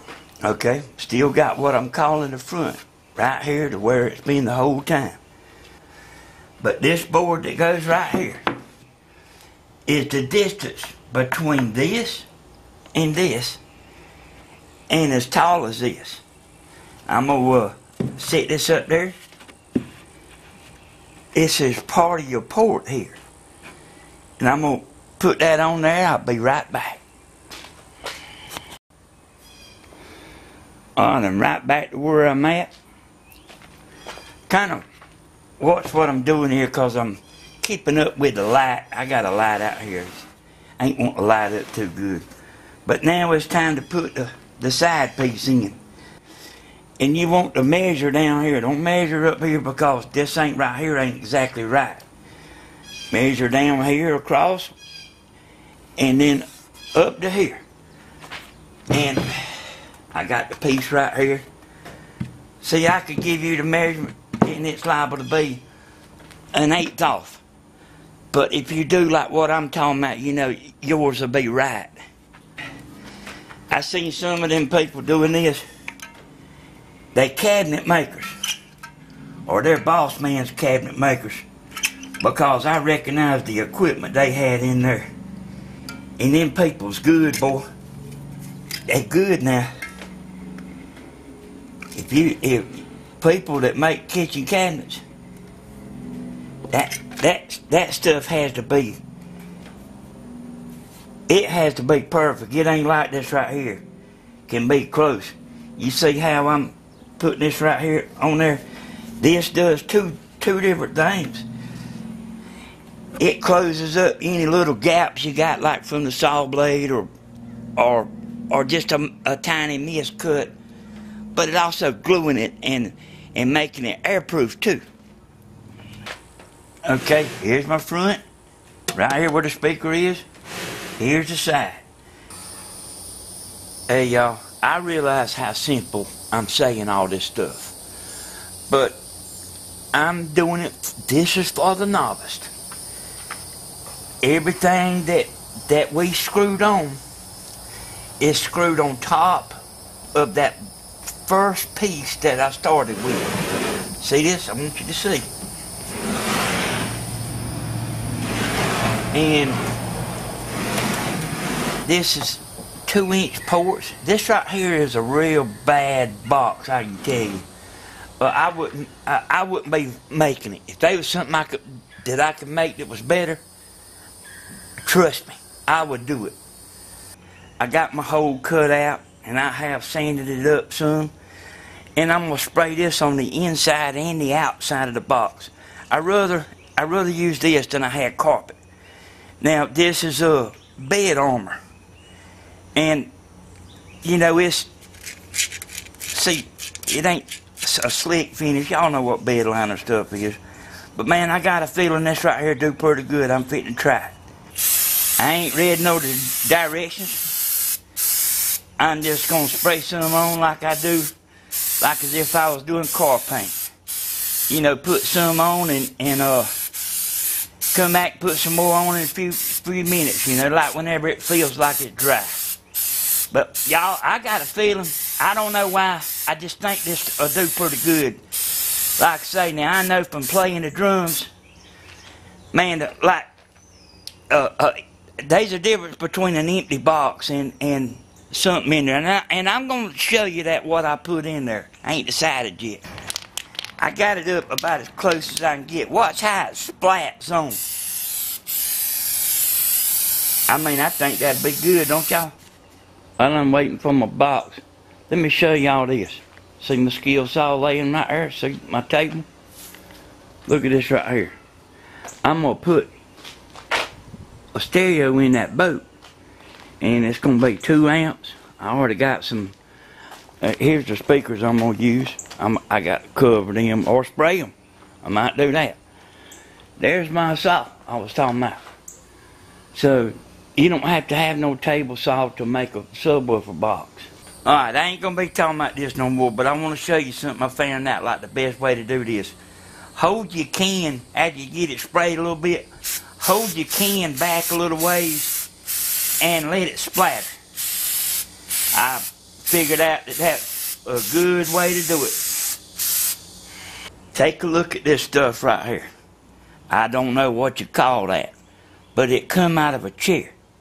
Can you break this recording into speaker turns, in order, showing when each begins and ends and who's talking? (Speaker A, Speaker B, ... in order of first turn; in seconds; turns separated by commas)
Speaker A: 0.4-5.2, Speaker A: 6.6-8.4, Speaker A: 9.9-12.3, Speaker A: 12.9-13.6, Speaker A: 14.9-16.2, Speaker A: 17.1-19.2, Speaker A: 21.3-23.2, Speaker A: 24.4-27.0, Speaker A: 31.0-32.7, Speaker A: 34.5-34.9, Speaker A: 35.6-40.3, Speaker A: 40.8-42.3, Speaker A: 42.9-45.8, Speaker A: 47.0-52.0, Speaker A: 53.1-54.7, Speaker A: 56.0-57.6, Speaker A: 58.9-61.5, Speaker A: 62.6-65.6, Speaker A: 66.5-67.4, Speaker A: 68.3-72.0, Speaker A: 73.7-75.6, Speaker A: 77.1-78.3, Speaker A: 79.5-81.5, Speaker A: 82.2-85.1, Speaker A: 86.2-87.7, Speaker A: 88.9-89.7, Speaker A: 91.9-95.0, Speaker A: 96.7-99.0, Speaker A: 101.3-103.8, Speaker A: 104.5-108.6, Speaker A: 109.2-111.5, Speaker A: 113.2-117.1, Speaker A: 117.8-120.5, Speaker A: 121.3-124.8, Speaker A: 126.9-128.2, Speaker A: 128.9-130.2, Speaker A: 131.0-131.8, Speaker A: 133.9-137.8, Speaker A: 138.7-139.0, Speaker A: 139.9-142.5, Speaker A: 144.2-147.0, Speaker A: 148.2-149.6, Speaker A: 150.2-150.7, Speaker A: 151.2-153.3, Speaker A: 154.0-155.3, Speaker A: 159.1-159.6, Speaker A: 161.8-167.5, Speaker A: 168.2-173.4, Speaker A: 174.8-176.4, Speaker A: 177.6-181.1, Speaker A: 182.0-188.6, Speaker A: 189.4-191.6, Speaker A: 192.8-193.1, Speaker A: 194.0-194.7, Speaker A: 196.1-200.4, Speaker A: 200.9-204.2, Speaker A: 205.2-207.3, Speaker A: 208.8-211.1, Speaker A: 211.8-213.6, Speaker A: 214.5-216.5, Speaker A: 217.7-222.4, Speaker A: 223.3-228.2, Speaker A: 229.0-231.3, Speaker A: 232.5-233.3, Speaker A: 234.3-242.8, Speaker A: 243.8-247.6, Speaker A: 250.5-252.3, Speaker A: 253.2-259.3, Speaker A: 260.5-261.3, Speaker A: 262.2-262.9, Speaker A: 264.5-265.9, Speaker A: 266.8-269.6, Speaker A: 270.4-275.8, Speaker A: 276.8-278.6, Speaker A: 279.7-289.4, Speaker A: 290.0-292.7, Speaker A: 293.2-295.4, Speaker A: 296.2-297.3, Speaker A: 298.7-302.2, Speaker A: 304.1-305.9, Speaker A: 306.7-308.4, Speaker A: 308.9-310.4